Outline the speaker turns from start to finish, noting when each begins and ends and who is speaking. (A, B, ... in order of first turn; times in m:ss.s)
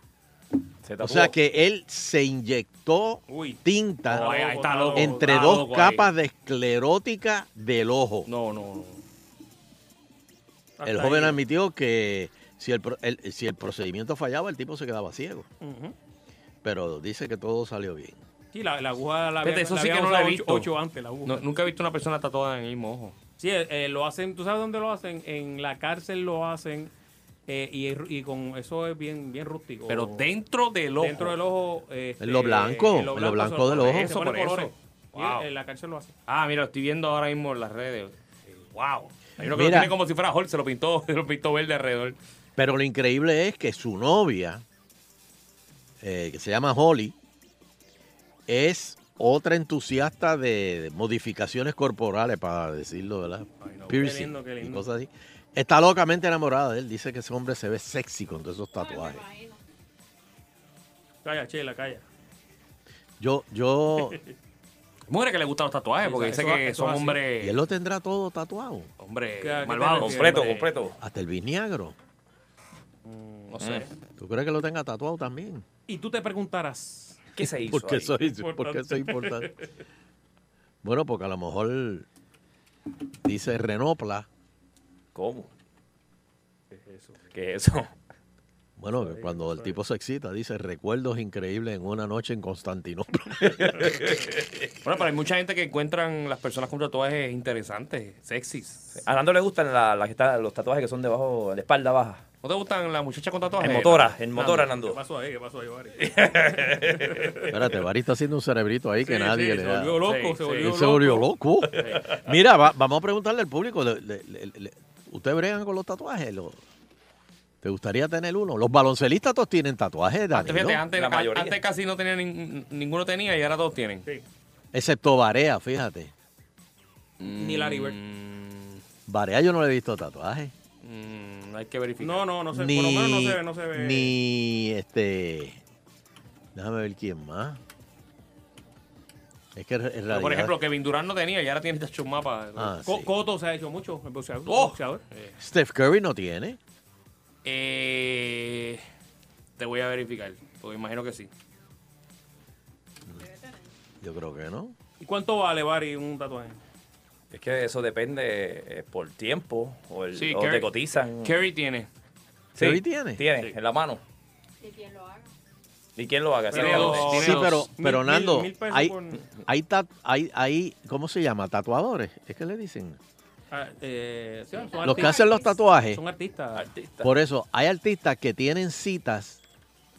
0:00.8-0:01.4 A
0:01.0-0:04.3 B
0:03.3-0:05.5 C
0:04.1-0:06.1 D
0:04.9-0:08.3 B
0:08.3-0:09.0 D
0:10.8-0:11.4 C
0:10.8-0:15.5 B
0:15.6-0:16.0 C
0:16.6-0:18.2 B
0:18.5-0:21.4 C
0:19.4-0:20.7 D
0:21.3-0:23.2 D
0:23.4-0:26.9 C
0:27.5-0:30.2 C
0:29.9-0:31.4 D
0:31.0-0:36.1 C
0:32.2-0:34.1 B
0:33.8-0:35.5 D
0:36.3-0:38.1 D
0:38.7-0:42.2 D
0:39.4-0:39.9 B
0:42.6-0:44.6 B
0:46.0-0:47.2 B
0:48.5-0:59.2 B
0:53.6-0:54.8 C
0:58.8-0:59.6 E
1:01.2-1:02.1 C
1:03.2-1:04.2 B
1:05.1-1:07.6 D
1:06.0-1:07.2 C
1:07.4-1:08.9 B
1:09.0-1:10.7 D
1:09.4-1:10.7 C
1:10.0-1:11.0 A
1:11.0-1:12.0 B
1:13.1-1:13.9 C
1:13.5-1:13.8 D
1:13.6-1:13.9 A
1:14.2-1:15.6 B
1:15.9-1:17.2 C
1:17.4-1:18.2 A
1:17.4-1:19.5 B
1:18.2-1:19.7 C
1:20.8-1:22.1 B
1:23.2-1:24.3 B
1:25.1-1:25.5 A
1:26.7-1:27.2 C
1:27.3-1:27.9 A
1:28.8-1:34.0 B
1:29.0-1:29.8 C
1:33.4-1:34.4 A
1:34.8-1:39.0 D
1:39.0-1:42.2 A
1:42.4-1:44.6 D
1:43.6-1:45.0 A
1:44.4-1:47.6 C
1:46.0-1:47.1 A
1:47.5-1:50.0 B
1:49.0-1:52.0 C
1:50.0-1:50.7 D
1:50.6-1:56.6 B
1:57.6-2:00.8 B
2:00.3-2:04.0 D
2:00.9-2:01.6 A
2:04.7-2:06.1 B
2:07.2-2:08.8 D
2:07.4-2:08.0 C
2:09.1-2:10.5 B
2:10.8-2:12.3 D
2:12.0-2:14.2 C
2:12.5-2:15.6 B
2:16.6-2:17.6 B
2:19.6-2:20.6 B
2:20.1-2:22.7 D
2:22.6-2:23.1 B
2:22.8-2:25.0 C
2:24.5-2:25.4 D
2:25.4-2:26.6 B
2:27.4-2:28.8 D
2:29.6-2:31.3 D
2:33.2-2:33.7 E
2:34.0-2:34.8 B
2:35.0-2:36.6 C
2:37.3-2:41.4 A
2:40.1-2:41.9 D
2:42.6-2:44.0 A
2:42.6-2:43.2 B
2:44.6-2:45.3 E
2:46.0-2:47.2 A
2:46.5-2:49.2 C
2:46.5-2:47.7 D
2:47.1-2:53.0 B
2:53.5-2:55.3 C
2:54.5-2:55.6 E
2:54.8-2:56.0 B
2:55.9-2:56.7 C
2:56.5-2:57.1 A
2:57.0-2:59.4 B